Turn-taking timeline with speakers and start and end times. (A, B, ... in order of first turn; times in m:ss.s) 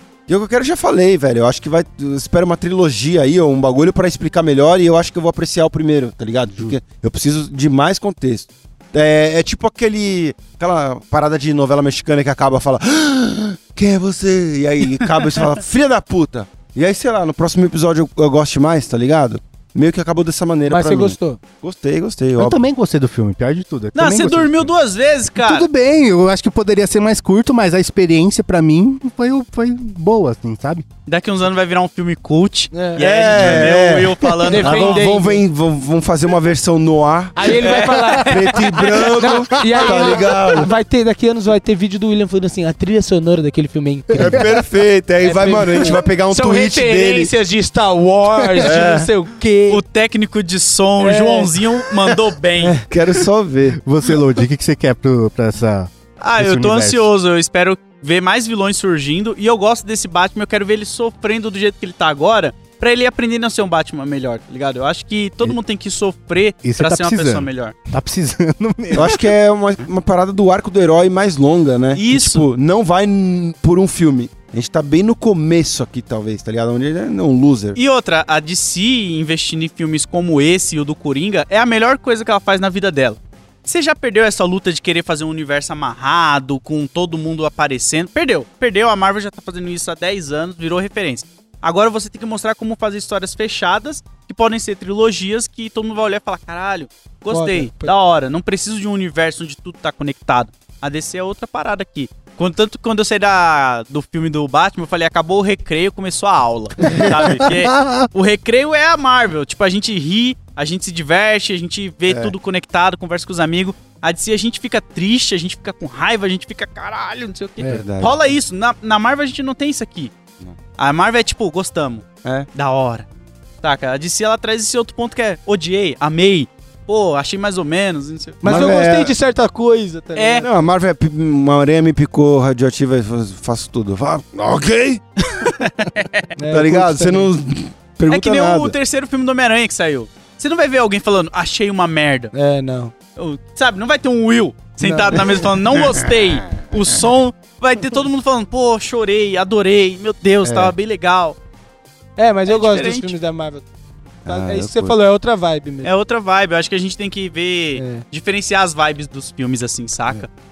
0:00.3-0:22.6 A
0:20.7-0:21.4 B
0:22.4-0:24.7 C
0:24.0-0:25.7 D
0:25.4-0:30.8 C
0:31.1-0:35.1 D
0:32.7-0:33.1 B
0:33.0-0:40.7 A
0:34.5-0:35.4 B
0:37.4-0:38.6 B
0:37.6-0:39.1 D
0:39.2-0:44.5 B
0:39.6-0:40.2 C
0:44.2-0:47.3 A
0:45.2-0:49.8 B
0:48.6-0:49.1 A
0:49.7-0:52.8 D
0:51.0-0:52.9 B
0:52.9-0:53.8 A
0:53.8-0:57.1 C
0:56.2-1:07.7 D
1:06.6-1:09.2 C
1:08.9-1:17.8 A
1:12.0-1:12.4 D
1:17.8-2:00.1 D
1:37.3-1:37.9 B
1:46.9-1:48.1 C
1:52.1-1:52.4 A
1:57.6-1:58.3 A
2:00.8-2:03.1 D
2:03.6-2:08.8 D
2:08.4-2:10.5 B
2:08.4-2:09.1 A
2:10.2-2:10.5 D
2:10.4-2:15.6 A
2:15.4-2:16.3 D
2:16.4-2:17.3 B
2:16.5-2:18.8 A
2:18.1-2:22.3 D
2:22.3-2:22.9 B
2:23.2-2:31.4 D
2:24.8-2:25.3 B
2:25.2-2:26.3 A
2:30.4-2:30.7 A
2:32.2-2:33.6 B
2:32.5-2:33.2 D
2:34.3-2:35.0 A
2:34.3-2:35.9 B
2:35.8-2:40.3 D
2:37.8-2:38.0 B